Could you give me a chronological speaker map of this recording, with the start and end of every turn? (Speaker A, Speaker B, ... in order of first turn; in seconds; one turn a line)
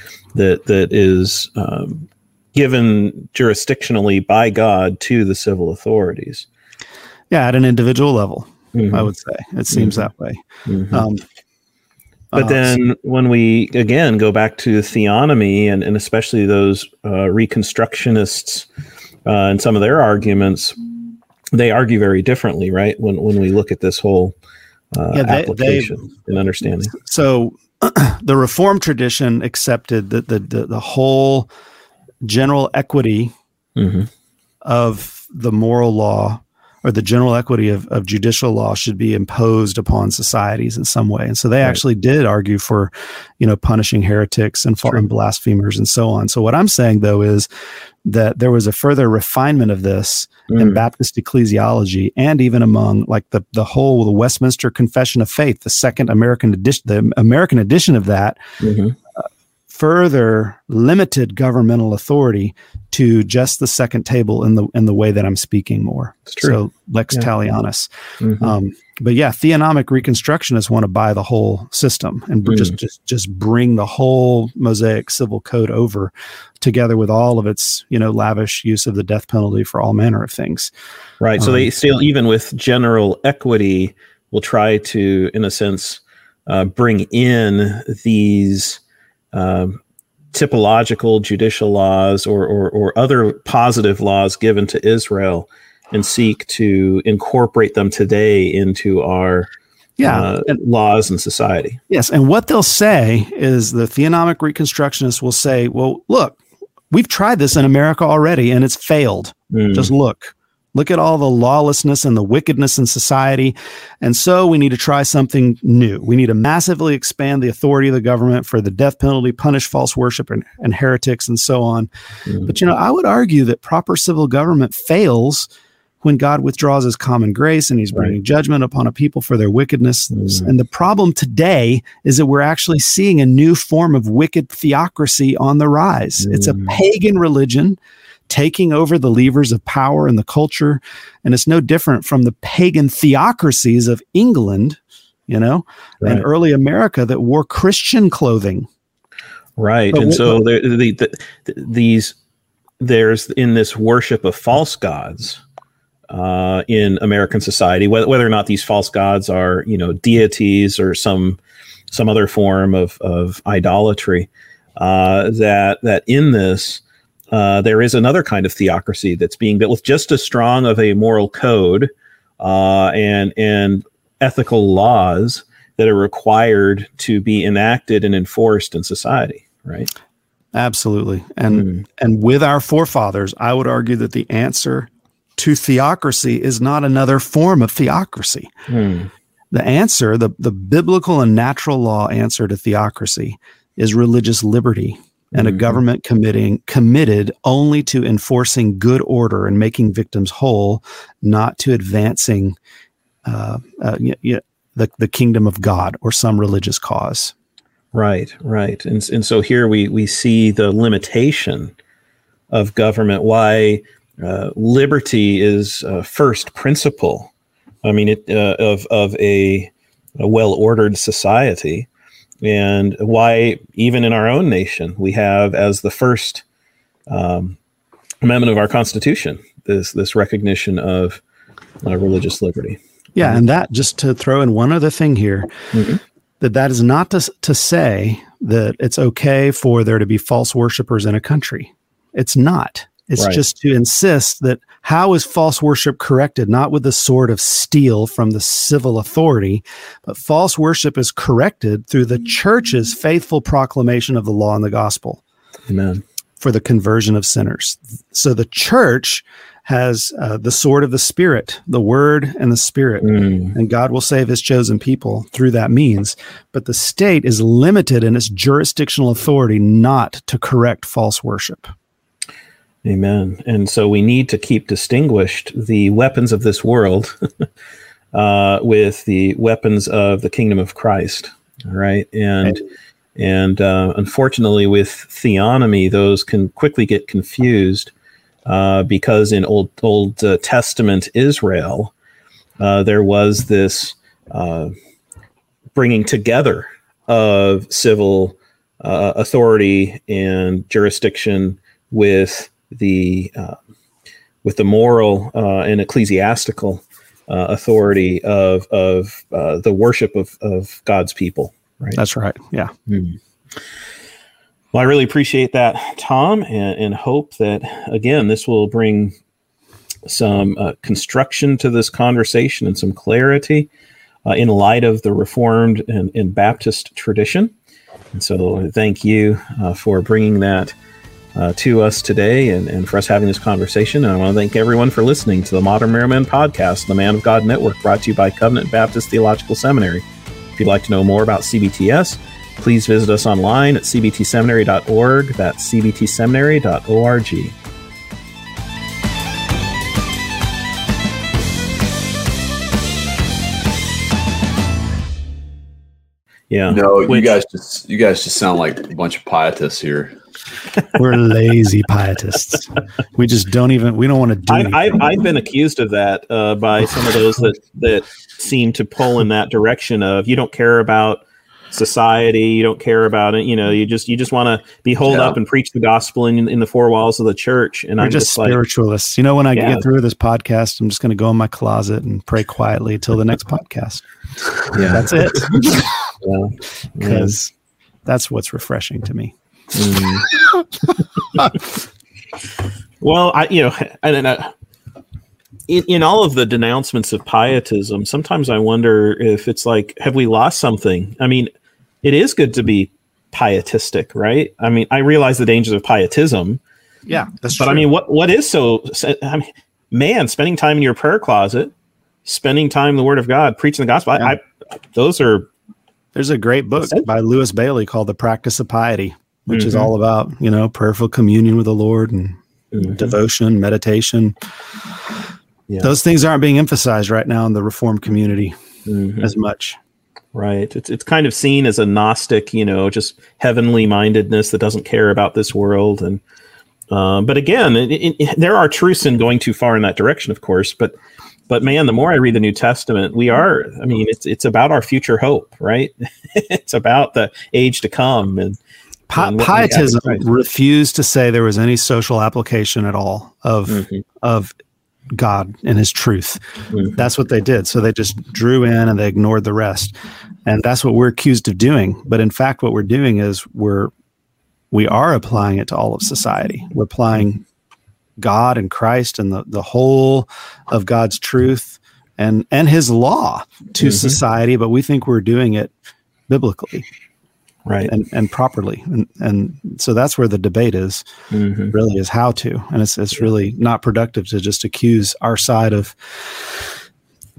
Speaker A: 0.3-6.5
Speaker B: 7.3-11.2
Speaker A: 8.7-9.1
Speaker A: 9.7-10.1
Speaker A: 10.7-11.1
Speaker B: 12.3-12.7
Speaker A: 12.3-18.7
Speaker A: 19.2-20.8
Speaker A: 21.5-24.3
Speaker A: 24.9-26.9
Speaker B: 25.1-26.1
Speaker B: 27.0-31.5
Speaker B: 32.2-33.3
Speaker A: 33.8-34.1
Speaker B: 34.6-47.5
Speaker B: 48.0-58.4
Speaker A: 50.5-50.8
Speaker A: 58.6-58.9
Speaker B: 59.2-80.7
Speaker A: 68.2-68.5
Speaker A: 72.5-72.7
Speaker A: 81.2-88.8
Speaker B: 81.4-81.7
Speaker A: 89.3-89.8
Speaker A: 90.3-99.5
Speaker B: 100.0-100.6
Speaker A: 100.0-101.8
Speaker B: 101.9-106.4
Speaker B: 106.9-121.9
Speaker A: 109.5-109.9
Speaker B: 122.4-125.5
Speaker B: 126.0-137.8
Speaker A: 130.1-130.5
Speaker A: 136.2-136.8
Speaker B: 138.3-148.7
Speaker A: 149.6-152.2
Speaker B: 149.9-150.4
Speaker A: 152.8-155.4
Speaker A: 156.1-161.4
Speaker A: 161.9-179.9
Speaker B: 180.5-188.5
Speaker A: 181.5-181.8
Speaker A: 188.7-189.1
Speaker B: 189.5-202.6
Speaker A: 195.4-195.8
Speaker B: 203.2-207.3
Speaker A: 207.9-211.7
Speaker A: 212.5-217.3
Speaker A: 217.8-221.9
Speaker A: 222.4-226.4
Speaker A: 227.1-227.6
Speaker A: 228.2-231.2
Speaker A: 231.8-233.4
Speaker B: 233.2-235.5
Speaker A: 235.7-236.0
Speaker B: 236.4-255.2
Speaker A: 255.7-256.0
Speaker B: 256.4-271.7
Speaker A: 263.0-263.5
Speaker A: 272.8-277.4
Speaker A: 278.1-282.6
Speaker A: 283.1-287.9
Speaker A: 288.4-291.9
Speaker A: 292.6-294.7
Speaker A: 295.7-303.6
Speaker A: 304.4-312.0
Speaker B: 311.9-312.7
Speaker A: 312.9-313.2
Speaker A: 314.7-319.1
Speaker A: 320.1-323.7
Speaker A: 324.2-327.5
Speaker A: 328.1-330.7
Speaker A: 331.3-347.5
Speaker A: 356.5-357.3
Speaker C: 356.7-360.1
Speaker B: 360.9-365.0
Speaker A: 364.5-378.6
Speaker C: 375.1-375.4
Speaker B: 378.0-384.0
Speaker A: 379.5-379.8
Speaker B: 384.6-385.9
Speaker C: 384.7-385.3
Speaker A: 385.4-387.4
Speaker B: 387.0-387.5
Speaker B: 388.1-389.3
Speaker A: 389.7-390.3
Speaker A: 393.0-394.5
Speaker A: 395.7-401.5
Speaker A: 402.0-406.6
Speaker B: 407.1-407.9
Speaker A: 407.6-411.7
Speaker A: 412.2-415.5
Speaker B: 416.1-424.3
Speaker A: 416.8-417.1
Speaker A: 419.5-419.9
Speaker A: 422.7-423.1
Speaker B: 425.8-428.5
Speaker A: 428.9-429.3
Speaker B: 429.2-429.8
Speaker A: 430.3-436.2
Speaker A: 436.9-440.9
Speaker A: 441.5-448.6
Speaker B: 449.1-454.5
Speaker A: 449.1-450.2
Speaker A: 453.7-454.0
Speaker B: 455.1-459.9
Speaker A: 456.7-457.0
Speaker B: 460.4-463.9
Speaker B: 464.7-467.4
Speaker B: 468.2-475.7
Speaker A: 473.8-474.2
Speaker B: 476.3-476.9
Speaker A: 477.6-477.9
Speaker B: 477.8-481.0
Speaker A: 481.3-481.7
Speaker B: 481.7-486.7